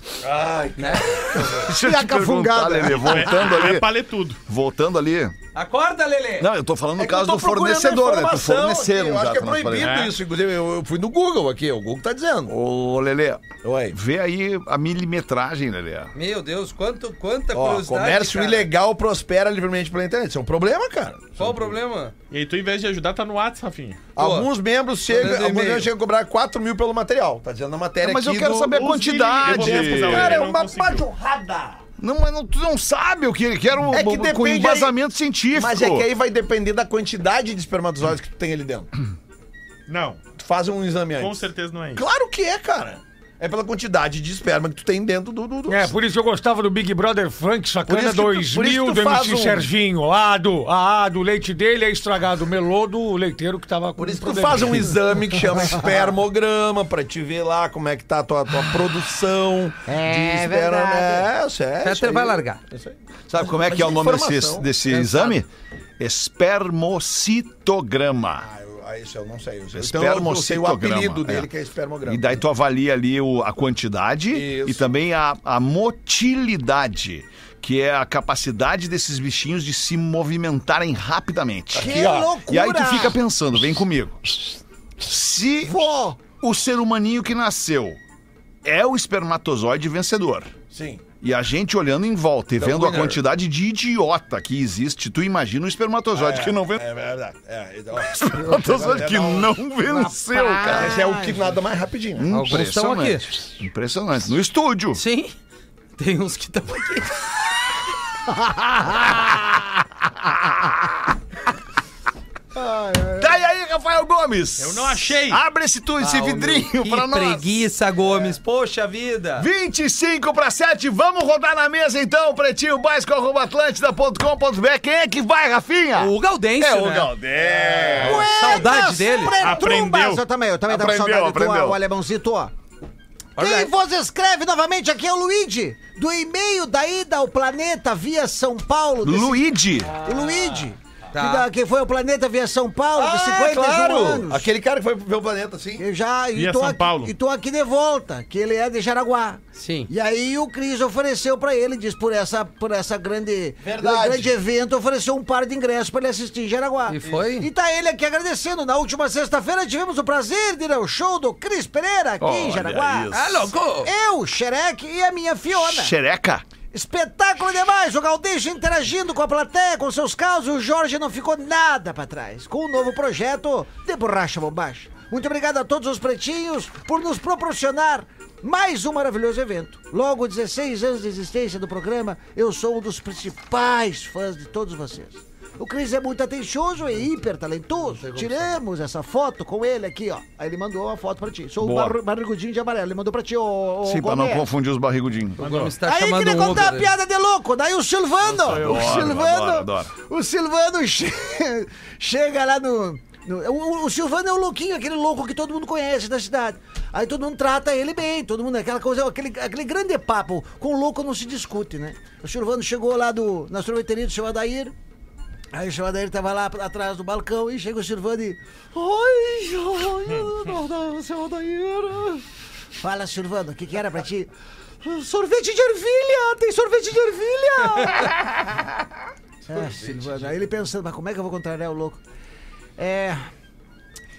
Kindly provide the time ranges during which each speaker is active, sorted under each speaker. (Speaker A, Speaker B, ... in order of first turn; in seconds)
Speaker A: 0.2-1.7, 7.0-12.5, 13.6-14.0, 17.5-21.8, 24.2-31.8, 33.9-34.9, 35.5-38.9, 40.4-45.9, 47.9-49.7, 54.0-64.7, 68.4-72.4, 74.3-74.8, 81.7-82.4, 90.7-91.0, 92.6-93.2, 96.1-99.6, 100.7-102.3, 127.4-128.2, 142.9-145.8, 153.6-154.3, 188.0-188.6, 229.5-230.3
Speaker B: 0.8-1.4, 5.5-6.5, 16.1-18.7, 21.4-22.1, 24.2-24.5, 25.1-25.9, 61.8-62.6, 64.9-65.3, 102.3-103.3, 105.0-105.3, 106.0-107.2, 116.0-119.5, 126.0-127.1, 128.0-129.4, 133.4-133.7, 141.1-141.5, 149.6-149.9, 156.9-157.5, 163.1-163.9, 195.4-196.9
Speaker C: 1.6-3.9, 4.5-5.3, 6.4-9.9, 12.5-16.1, 28.0-30.4, 32.0-36.1, 63.3-68.5, 69.7-71.5, 72.1-84.3, 85.0-88.0, 88.6-90.5, 91.2-96.8, 98.1-101.0, 102.2-105.0, 113.2-117.7, 119.4-128.2, 130.7-131.8, 139.0-140.0, 162.2-163.5, 165.5-166.5, 191.6-192.0, 193.8-195.4, 198.5-199.9
Speaker D: 1.7-3.3, 59.9-61.3, 81.8-83.2, 85.6-86.3, 99.8-101.5, 108.3-109.6, 112.5-113.4, 128.0-132.5, 133.4-144.5, 145.8-163.1, 163.8-165.9, 166.7-194.5, 195.8-214.7, 215.5-222.2, 222.8-224.3, 224.8-228.5, 229.5-232.0, 232.8-233.2
Speaker E: 3.0-4.4, 9.8-10.2, 22.3-24.0, 28.7-31.1, 39.9-40.2, 41.2-42.0, 114.6-115.4, 129.4-130.2, 146.3-147.2, 195.4-195.7, 198.4-199.0
Speaker F: 45.7-55.0